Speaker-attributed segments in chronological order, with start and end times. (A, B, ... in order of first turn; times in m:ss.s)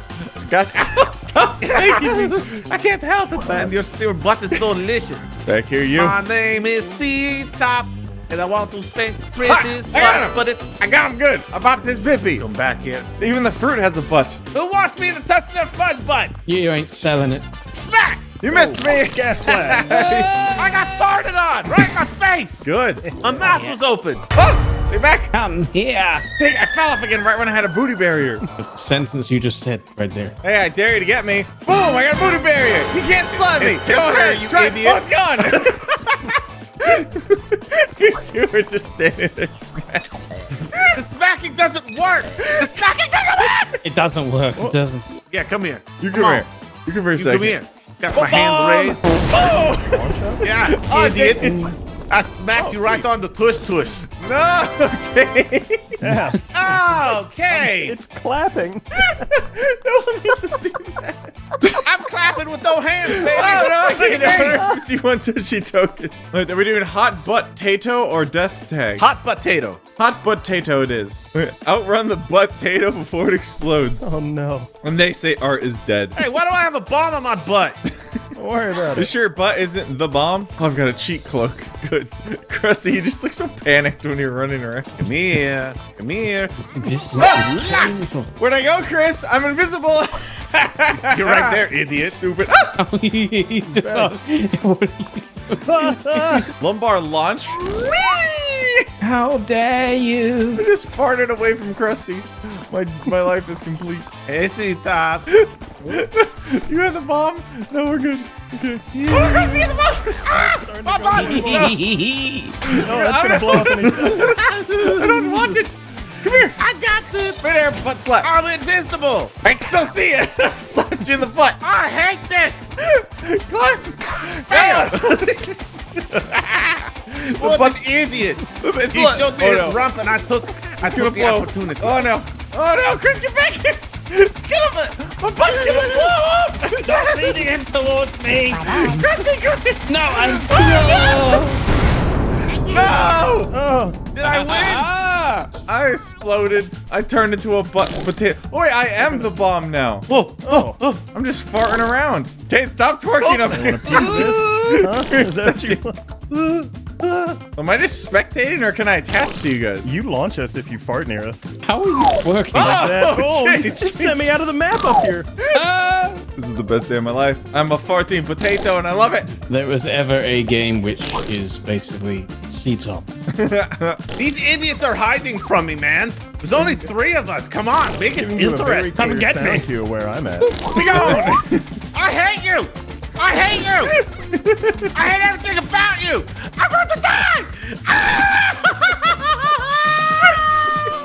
0:00.4-0:02.4 A
0:01.6-0:05.4 B
0:05.5-0:06.2 A
0:05.9-0:10.7 B
0:09.4-0:12.4 A
0:12.4-0:13.1 B
0:13.2-0:14.4 A
0:14.5-0:16.3 B
0:16.5-0:17.5 C
0:17.7-0:18.4 B
0:18.4-0:20.3 A
0:18.5-0:19.9 D
0:19.8-0:20.8 C
0:20.6-0:22.7 B
0:22.6-0:23.1 A
0:23.1-0:23.4 D
0:23.2-0:24.3 B
0:23.4-0:23.8 C
0:24.3-0:25.3 A
0:25.3-0:26.3 C
0:26.4-0:28.4 A
0:28.6-0:30.3 C
0:30.4-0:36.3 A
0:33.5-0:35.8 B
0:36.8-0:41.0 A
0:41.0-0:43.8 B
0:43.8-0:45.0 C
0:45.3-0:46.5 B
0:46.0-0:47.6 A
0:47.2-0:49.0 B
0:48.1-0:51.7 A
0:49.2-0:50.4 D
0:50.4-0:54.0 B
0:51.4-0:51.8 D
0:52.6-0:53.0 A
0:54.2-0:56.0 A
0:56.0-0:59.1 D
0:56.5-0:58.0 B
0:59.0-1:01.9 A
1:01.7-1:04.7 B
1:03.1-1:09.0 A
1:04.3-1:04.8 D
1:09.0-1:09.8 B
1:10.0-1:14.1 A
1:14.0-1:14.7 D
1:14.8-1:16.2 A
1:16.2-1:17.8 B
1:18.4-1:19.1 D
1:19.0-1:25.1 A
1:25.0-1:28.0 B
1:26.7-1:28.3 C
1:27.2-1:27.4 A
1:28.4-1:32.8 A
1:30.9-1:32.2 B
1:32.8-1:36.5 C
1:33.7-1:34.2 D
1:35.6-1:36.5 D
1:36.6-1:38.9 A
1:39.0-1:40.6 C
1:40.6-1:44.1 A
1:44.3-1:45.3 B
1:45.3-1:50.4 A
1:49.0-1:51.8 B
1:50.3-1:51.8 D
1:51.2-1:52.6 C
1:52.6-1:58.3 A
1:52.8-1:54.4 D
1:58.2-1:59.4 B
1:59.4-2:01.6 A
2:01.6-2:02.6 B
2:02.8-2:05.6 A
2:04.5-2:05.4 B
2:06.3-2:07.8 A
2:07.3-2:12.1 B
2:08.4-2:09.8 A
2:10.8-2:17.4 A
2:15.4-2:16.2 B
2:16.8-2:19.1 C
2:18.7-2:21.4 A
2:19.9-2:21.6 C
2:22.6-2:23.6 A
2:23.5-2:24.0 D
2:24.1-2:24.9 B
2:24.2-2:25.5 C
2:25.7-2:30.1 A
2:30.1-2:31.0 B
2:30.4-2:30.8 D
2:31.1-2:39.9 A
2:33.2-2:34.8 B
2:33.5-2:36.0 D
2:39.8-2:41.4 D
2:41.6-2:42.9 C
2:42.5-2:44.3 A
2:42.6-2:45.3 D
2:45.5-2:46.2 C
2:46.4-2:49.3 A
2:49.5-2:53.1 C
2:53.3-2:54.0 A
2:54.2-2:59.0 B
2:58.1-3:00.5 D
2:59.0-2:59.6 C
3:00.4-3:01.2 C
3:00.7-3:01.8 A
3:01.9-3:04.0 B
3:03.8-3:05.0 A
3:04.9-3:10.8 B